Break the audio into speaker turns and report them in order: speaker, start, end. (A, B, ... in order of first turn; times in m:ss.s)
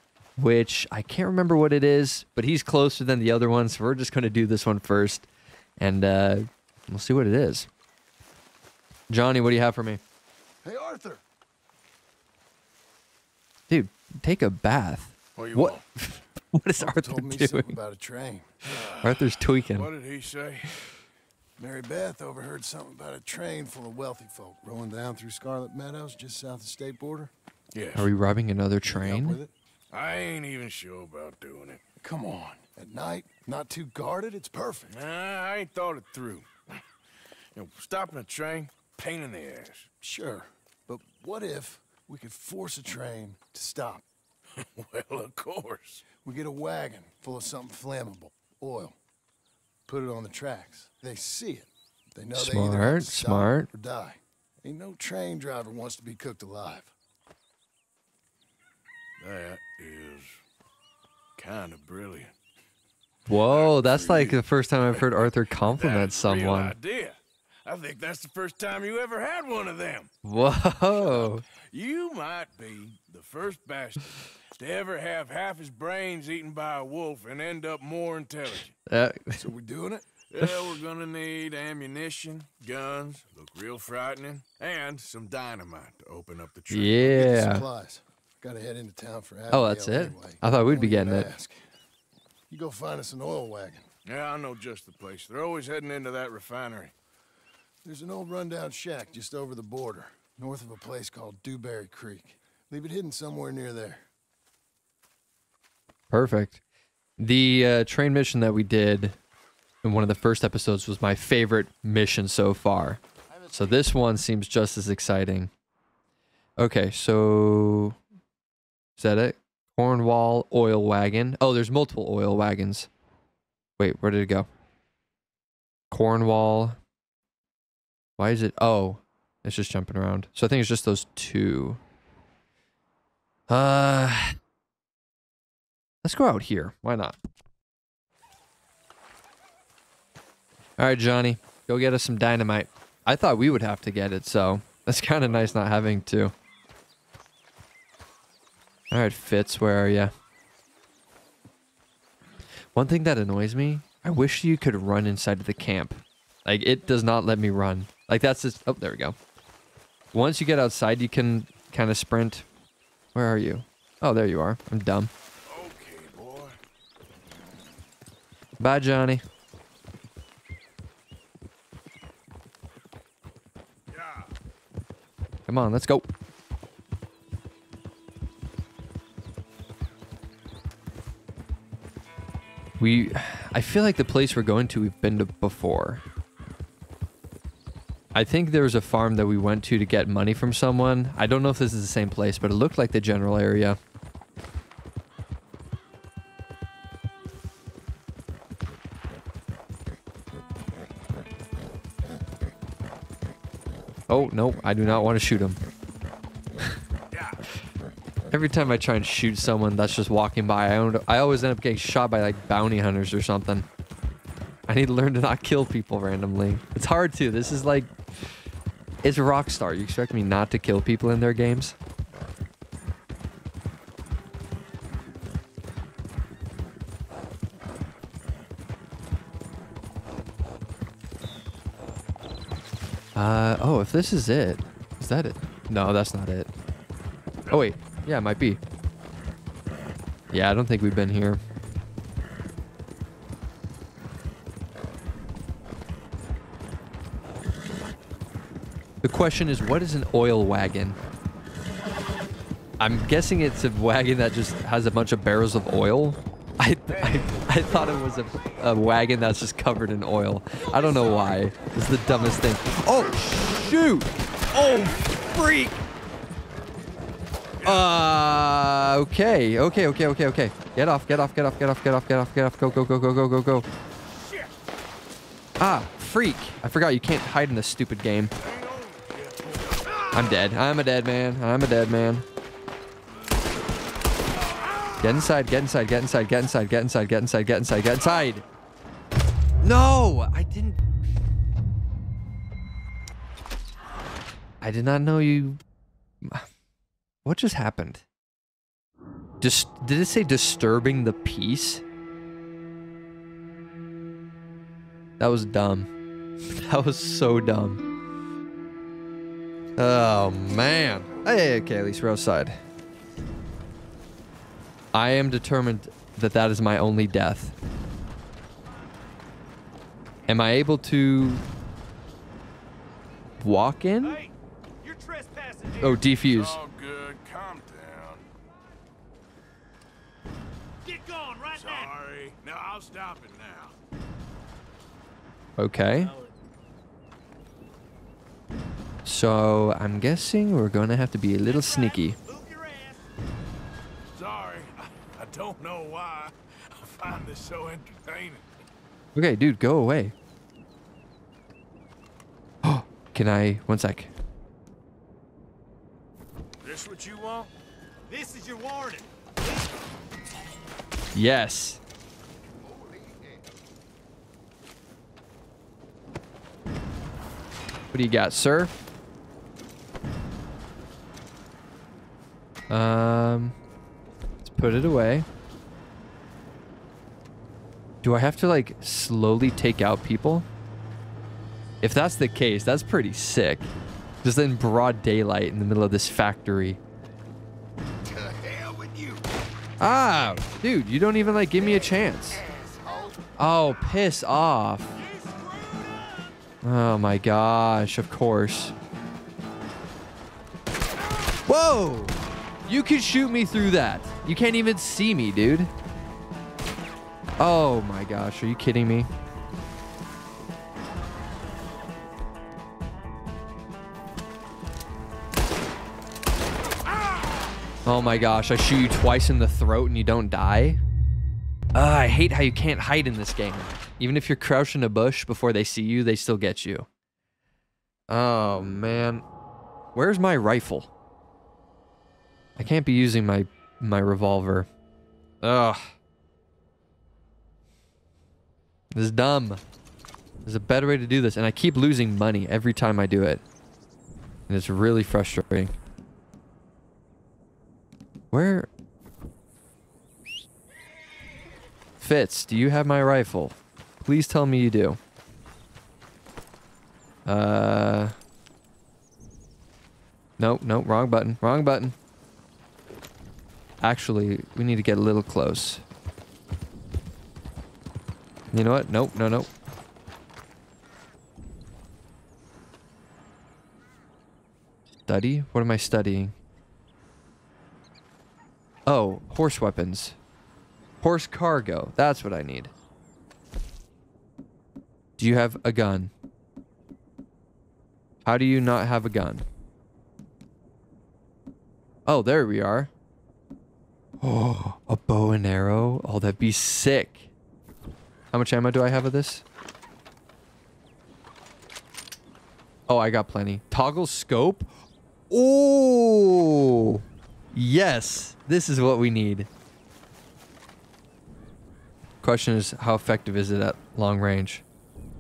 0:00.4-0:05.3 A
0:05.8-0:07.7 A
0:09.1-0:10.0 A
0:10.6-0:11.2 B
0:13.7-0:17.7 A
0:15.4-0:15.8 C
0:16.8-0:18.5 B
0:18.6-0:20.8 C
0:19.0-0:19.9 A
0:21.6-0:27.3 B
0:27.7-0:28.1 C
0:28.0-0:29.4 A
0:28.8-0:29.5 B
0:29.9-0:31.8 C
0:32.0-0:35.0 B
0:34.9-0:36.5 C
0:37.5-0:39.9 C
0:40.0-0:44.0 B
0:44.6-0:46.0 C
0:46.1-0:49.0 B
0:49.9-0:56.9 B
0:52.3-0:53.7 A
0:59.2-1:00.4 C
1:01.4-1:02.3 C
1:03.3-1:06.7 A
1:03.3-1:10.2 C
1:10.2-1:11.4 A
1:11.6-1:18.8 C
1:18.9-1:19.4 A
1:19.4-1:20.1 B
1:20.3-1:27.2 C
1:20.4-1:20.8 A
1:26.7-1:27.6 A
1:27.1-1:31.7 B
1:29.5-1:31.3 A
1:32.5-1:33.9 B
1:34.0-1:36.9 C
1:37.8-1:44.0 B
1:46.1-1:46.6 A
1:47.2-1:49.2 A
1:49.8-1:55.5 A
1:56.6-1:58.0 A
1:59.0-2:02.9 A
2:03.8-2:04.5 A
2:05.9-2:06.8 A
2:08.2-2:11.8 A
2:13.5-2:14.4 A
2:16.0-2:17.2 A
2:20.8-2:26.3 A
2:25.3-2:25.5 C
2:28.9-2:30.1 A
2:32.7-2:39.2 A
2:40.1-2:42.4 A
2:43.1-2:45.1 A
2:45.4-2:46.6 C
2:48.6-2:49.2 A
2:53.9-2:54.3 C
2:55.5-2:56.1 A
3:02.8-3:06.0 A
3:08.1-3:13.8 A
3:24.1-3:25.6 A
3:27.1-3:27.4 C
3:28.3-3:33.6 A
3:34.7-3:37.9 A
3:39.0-3:41.7 A
3:53.2-3:56.5 A
3:57.5-3:58.6 A
4:00.3-4:01.4 A
4:09.0-4:11.0 A
4:12.8-4:25.8 A
4:17.1-4:17.6 C
4:20.9-4:21.3 D
4:27.6-4:27.9 C
4:27.6-4:33.7 A
4:35.6-4:38.3 A
4:38.4-4:40.4 C
4:40.1-4:42.2 A
4:45.0-4:48.4 A
4:48.0-4:48.4 C
4:49.6-4:50.8 A
4:54.6-4:55.6 A
4:57.2-4:58.0 A
4:59.4-5:01.8 A
5:05.2-5:05.9 A
5:06.4-5:07.8 A
5:09.8-5:12.6 A
5:14.9-5:17.5 A
5:20.3-5:21.4 A
5:23.4-5:24.2 A
5:24.0-5:26.0 D
5:25.8-5:26.6 A
5:26.3-5:28.2 C
5:30.8-5:31.9 D
5:31.5-5:33.7 C
5:35.6-5:36.1 A
5:35.9-5:36.3 D
5:39.0-5:42.2 A
5:41.4-5:43.1 D
5:44.1-5:48.4 C
5:49.1-5:50.1 A
5:52.6-5:54.1 A
5:56.6-5:57.5 C
5:58.1-5:59.7 D
6:01.1-6:01.8 A
6:02.6-6:03.4 D
6:07.9-6:08.7 A
6:12.7-6:13.6 A
6:14.4-6:15.2 A
6:18.0-6:20.4 A
6:21.8-6:23.7 A
6:24.2-6:26.8 A
6:28.0-6:29.2 D
6:29.8-6:32.4 A
6:32.4-6:33.2 D
6:33.4-6:34.9 A
6:34.9-6:36.3 D
6:36.6-6:38.7 A
6:41.4-6:45.7 A
6:47.4-6:49.1 A
6:57.8-7:00.8 A
7:01.7-7:06.9 A
7:08.1-7:09.2 A
7:09.9-7:10.9 A
7:12.6-7:14.7 A
7:15.4-7:15.9 A
7:18.9-7:19.6 A
7:20.4-7:23.4 A
7:24.5-7:25.8 A
7:28.3-7:28.7 A
7:32.0-7:35.0 A
7:37.2-7:38.1 A
7:40.4-7:42.0 A
7:43.8-7:45.8 A
7:48.5-7:49.5 A
7:55.1-7:56.3 A
7:58.8-8:00.2 A
8:01.0-8:02.7 A
8:05.2-8:06.1 A
8:08.2-8:09.4 A
8:12.0-8:12.9 A
8:14.2-8:17.3 A
8:18.3-8:19.4 A
8:22.9-8:24.7 A
8:25.3-8:29.5 A
8:32.2-8:34.6 A